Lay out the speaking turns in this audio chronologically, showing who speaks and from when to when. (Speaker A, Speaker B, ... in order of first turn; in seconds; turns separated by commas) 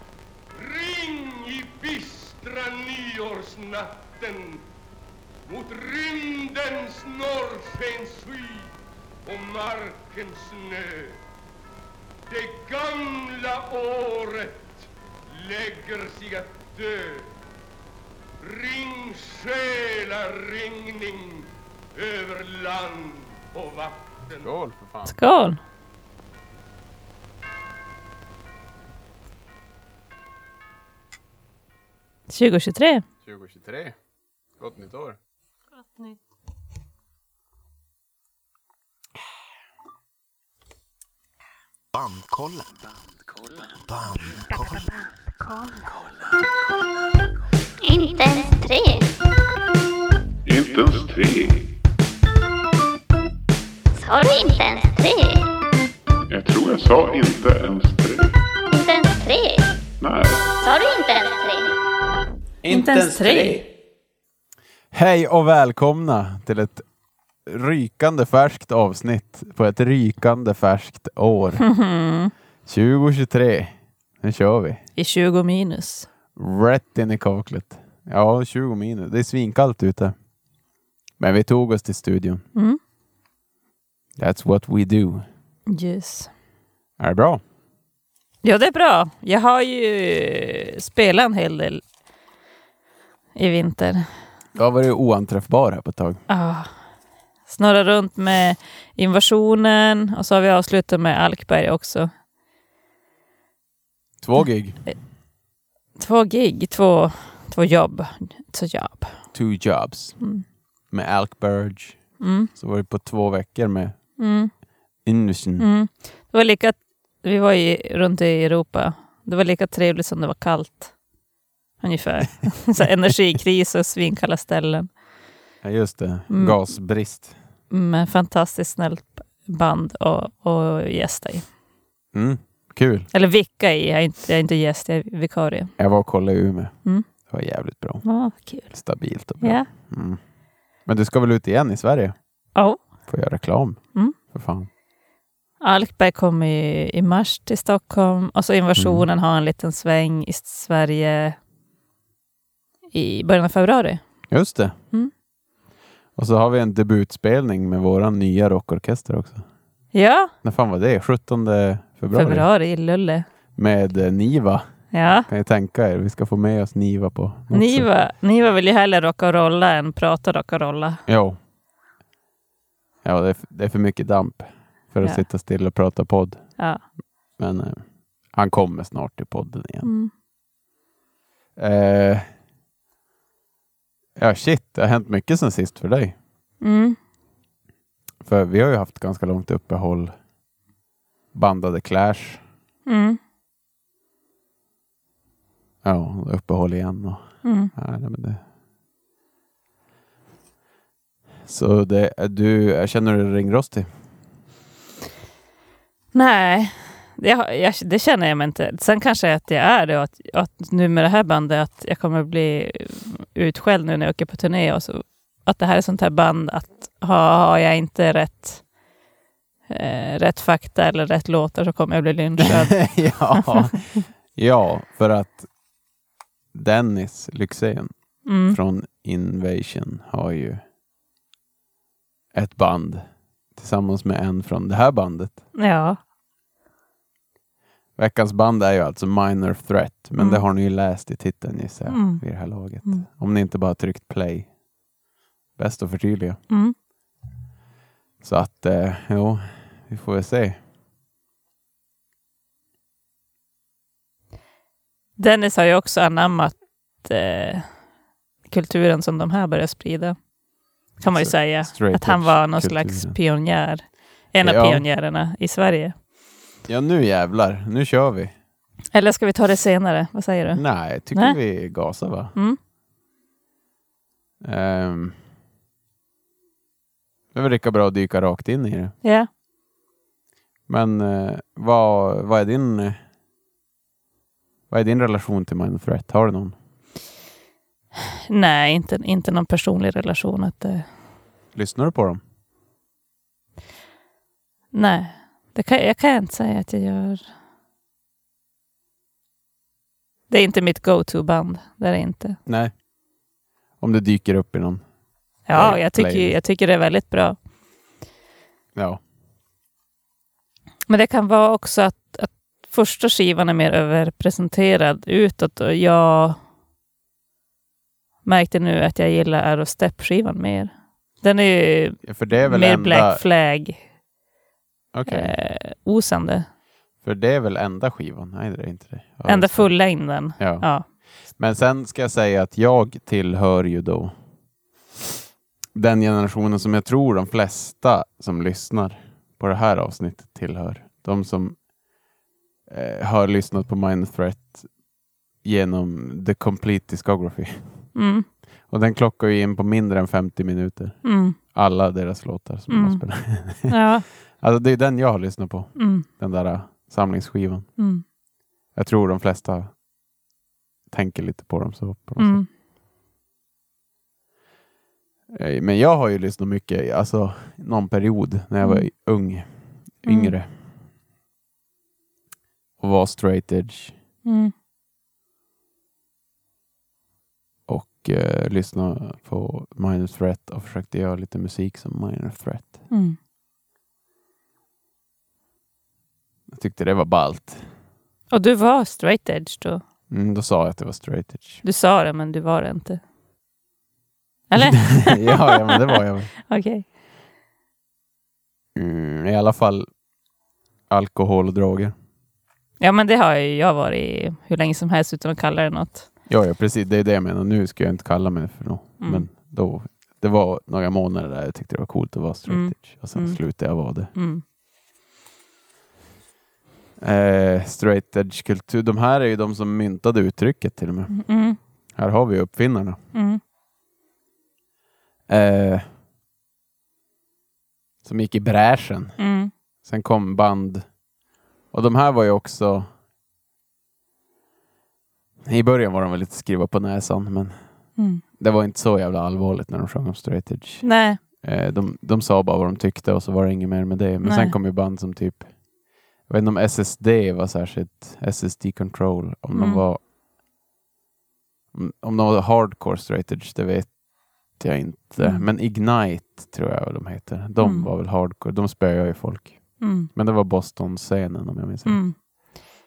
Speaker A: 0.5-4.6, Speaker A: 5.5-8.7, Speaker A: 9.2-11.2, Speaker A: 12.3-17.3, Speaker A: 18.4-24.5, Speaker B: 24.4-25.1, Speaker C: 25.1-25.6, Speaker C: 32.3-33.0, Speaker B: 33.2-33.9, Speaker B: 34.6-35.2, Speaker D: 41.9-42.8, Speaker D: 43.6-46.4, Speaker E: 47.8-49.1, Speaker F: 50.5-51.7, Speaker E: 53.9-55.4, Speaker F: 56.3-58.3, Speaker E: 58.7-59.8, Speaker F: 60.0-60.5, Speaker E: 60.6-61.7, Speaker B: 62.6-63.6, Speaker C: 62.7-63.6, Speaker B: 64.9-66.8, Speaker B: 67.4-71.7, Speaker C: 71.6-72.3, Speaker B: 72.7-74.8, Speaker C: 75.0-76.1, Speaker B: 76.3-80.1, Speaker B: 81.2-82.4, Speaker B: 84.2-85.3, Speaker C: 85.7-86.3, Speaker B: 87.0-87.4, Speaker C: 88.4-91.8, Speaker C: 93.3-94.0, Speaker B: 94.5-96.2, Speaker C: 96.3-96.7, Speaker C: 97.5-102.1, Speaker B: 104.2-104.8, Speaker C: 106.0-109.2, Speaker B: 109.3-110.2, Speaker B: 110.9-114.0, Speaker C: 112.2-112.5, Speaker C: 114.2-114.5, Speaker B: 115.0-115.7, Speaker C: 115.6-120.9, Speaker C: 121.8-124.9, Speaker B: 125.6-127.4, Speaker C: 126.3-126.6, Speaker C: 127.7-131.4, Speaker B: 132.1-133.1, Speaker C: 133.1-135.7, Speaker B: 135.8-138.0, Speaker C: 138.0-138.8, Speaker B: 138.6-140.2, Speaker C: 139.4-139.7, Speaker B: 140.8-142.1, Speaker C: 142.6-142.8, Speaker B: 143.1-144.7, Speaker C: 145.6-151.4, Speaker B: 148.8-149.0, Speaker C: 152.9-154.0, Speaker B: 154.3-154.7, Speaker B: 156.2-159.4, Speaker C: 159.9-160.3, Speaker B: 160.4-162.5, Speaker C: 162.1-163.2, Speaker B: 163.6-164.6, Speaker C: 164.9-165.3, Speaker B: 165.3-167.9, Speaker C: 167.5-171.0, Speaker B: 171.1-171.4, Speaker B: 173.0-176.6, Speaker B: 177.4-179.9, Speaker C: 179.8-180.1, Speaker B: 181.6-182.3, Speaker B: 184.2-186.2, Speaker C: 186.6-187.0, Speaker B: 188.2-190.1, Speaker B: 191.3-192.4, Speaker C: 192.8-193.2, Speaker B: 195.8-198.4, Speaker C: 197.4-197.7, Speaker B: 201.4-203.9, Speaker C: 206.1-218.7, Speaker C: 219.7-223.7, Speaker B: 222.4-225.5, Speaker B: 226.5-230.6, Speaker C: 228.2-228.6, Speaker B: 232.3-233.0, Speaker B: 233.5-235.4, Speaker C: 235.6-236.0, Speaker B: 238.0-244.5, Speaker C: 240.2-240.4, Speaker C: 241.9-242.2, Speaker B: 245.6-246.4, Speaker C: 246.5-246.7, Speaker B: 248.2-250.6, Speaker C: 255.2-257.8, Speaker C: 258.4-260.2, Speaker C: 260.9-265.9, Speaker B: 261.1-263.2, Speaker B: 264.4-264.9, Speaker B: 266.7-268.3, Speaker C: 268.9-271.4, Speaker B: 270.5-272.3, Speaker B: 274.4-275.2, Speaker B: 277.3-278.9, Speaker C: 279.0-279.3, Speaker B: 280.7-283.0, Speaker B: 284.7-286.6, Speaker C: 288.3-290.9, Speaker B: 291.5-292.2, Speaker C: 294.7-297.2, Speaker C: 300.3-302.4, Speaker B: 302.4-302.7, Speaker B: 303.8-304.8, Speaker C: 305.5-307.4, Speaker B: 305.5-306.4, Speaker B: 308.7-309.0, Speaker C: 310.9-316.4, Speaker C: 318.2-323.8, Speaker B: 322.0-323.2, Speaker B: 324.9-325.3, Speaker C: 325.1-326.5, Speaker B: 327.0-334.1, Speaker C: 329.2-330.9, Speaker B: 335.7-341.6, Speaker B: 342.7-344.7, Speaker B: 345.4-347.6, Speaker C: 347.9-348.3, Speaker B: 348.7-357.7, Speaker C: 351.0-351.4, Speaker C: 352.7-353.1, Speaker C: 353.6-354.1, Speaker C: 355.8-356.1, Speaker C: 357.8-358.0, Speaker B: 358.7-359.8, Speaker B: 360.9-362.4, Speaker C: 362.2-362.5, Speaker B: 365.3-370.5, Speaker C: 368.6-368.9, Speaker C: 370.0-370.3, Speaker B: 372.8-374.0, Speaker C: 374.2-374.5, Speaker B: 377.7-382.9, Speaker C: 382.9-383.2, Speaker B: 386.5-387.6, Speaker C: 388.3-389.8, Speaker B: 390.1-391.6, Speaker C: 391.6-393.0, Speaker C: 394.5-396.8, Speaker B: 394.6-396.3, Speaker B: 398.7-399.9, Speaker B: 400.9-401.9, Speaker C: 402.8-406.1, Speaker B: 406.3-414.1, Speaker C: 409.0-409.2, Speaker C: 412.5-414.4, Speaker B: 417.0-421.2, Speaker C: 421.1-421.6, Speaker B: 421.9-423.0, Speaker C: 423.1-423.4, Speaker B: 425.3-425.9, Speaker B: 428.0-429.2, Speaker C: 429.2-429.5, Speaker B: 429.8-430.9, Speaker B: 431.7-432.9, Speaker B: 435.4-437.5, Speaker B: 438.4-445.5, Speaker C: 440.8-441.2, Speaker C: 444.2-444.5, Speaker B: 446.2-450.0, Speaker C: 449.5-449.8, Speaker B: 451.7-454.0, Speaker B: 454.5-462.1, Speaker C: 455.2-455.4, Speaker C: 457.6-457.9, Speaker C: 459.8-460.1, Speaker C: 461.9-462.1